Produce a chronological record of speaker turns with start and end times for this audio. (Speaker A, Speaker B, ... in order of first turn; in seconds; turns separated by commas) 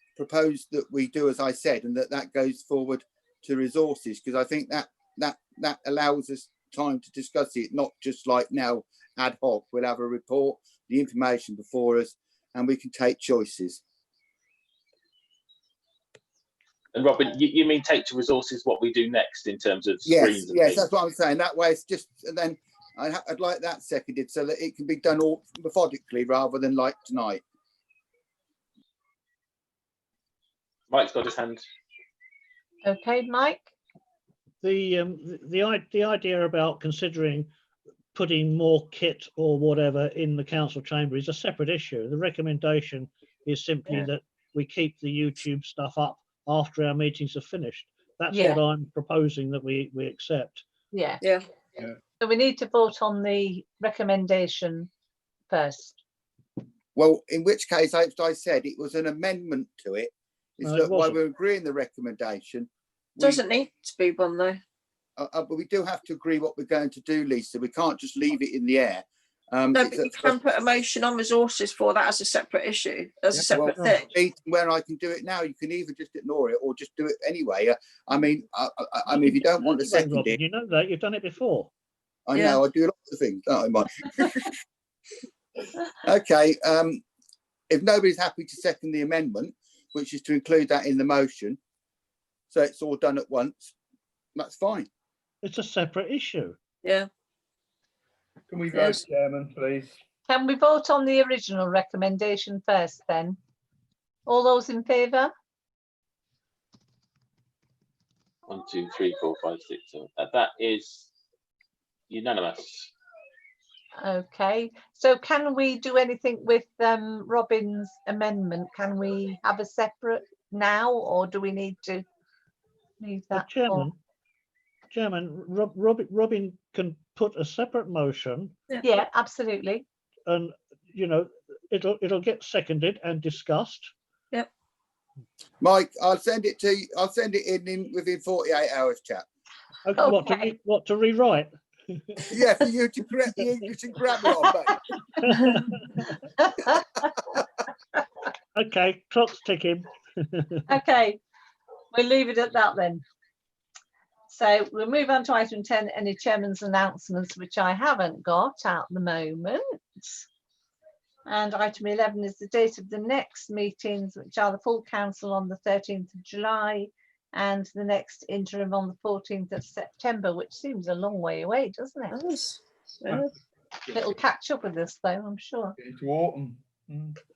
Speaker A: 0.2-13.8, Speaker B: 16.9-20.9, Speaker A: 20.1-27.4, Speaker B: 30.9-31.6, Speaker C: 32.8-33.7, Speaker D: 34.6-37.5, Speaker D: 38.1-50.6, Speaker C: 48.3-48.6, Speaker C: 50.9-51.2, Speaker C: 52.2-54.9, Speaker C: 55.5-56.0, Speaker A: 56.9-63.4, Speaker D: 60.6-61.2, Speaker E: 63.2-64.6, Speaker A: 65.2-70.4, Speaker E: 69.7-74.0, Speaker A: 73.3-80.4, Speaker D: 73.8-74.1, Speaker D: 79.1-81.7, Speaker A: 82.3-84.5, Speaker A: 86.0-87.0, Speaker A: 87.7-91.6, Speaker A: 92.5-93.7, Speaker A: 94.3-94.9, Speaker D: 95.4-96.6, Speaker F: 98.5-100.0, Speaker E: 98.7-99.0, Speaker C: 100.3-103.4, Speaker C: 104.2-105.3, Speaker B: 108.5-111.1, Speaker B: 112.1-112.9, Speaker C: 114.0-122.0, Speaker C: 123.0-123.9, Speaker D: 123.3-124.0, Speaker D: 124.9-128.6, Speaker C: 128.8-129.8, Speaker D: 130.3-133.9, Speaker A: 135.6-139.3, Speaker D: 139.8-142.3, Speaker C: 140.0-140.5, Speaker A: 142.3-144.8, Speaker D: 145.2-146.1, Speaker D: 148.5-150.7, Speaker C: 150.7-151.2, Speaker C: 151.9-153.0, Speaker C: 154.3-160.2, Speaker C: 161.3-172.2, Speaker E: 172.1-173.3, Speaker C: 173.9-175.7, Speaker F: 175.8-177.2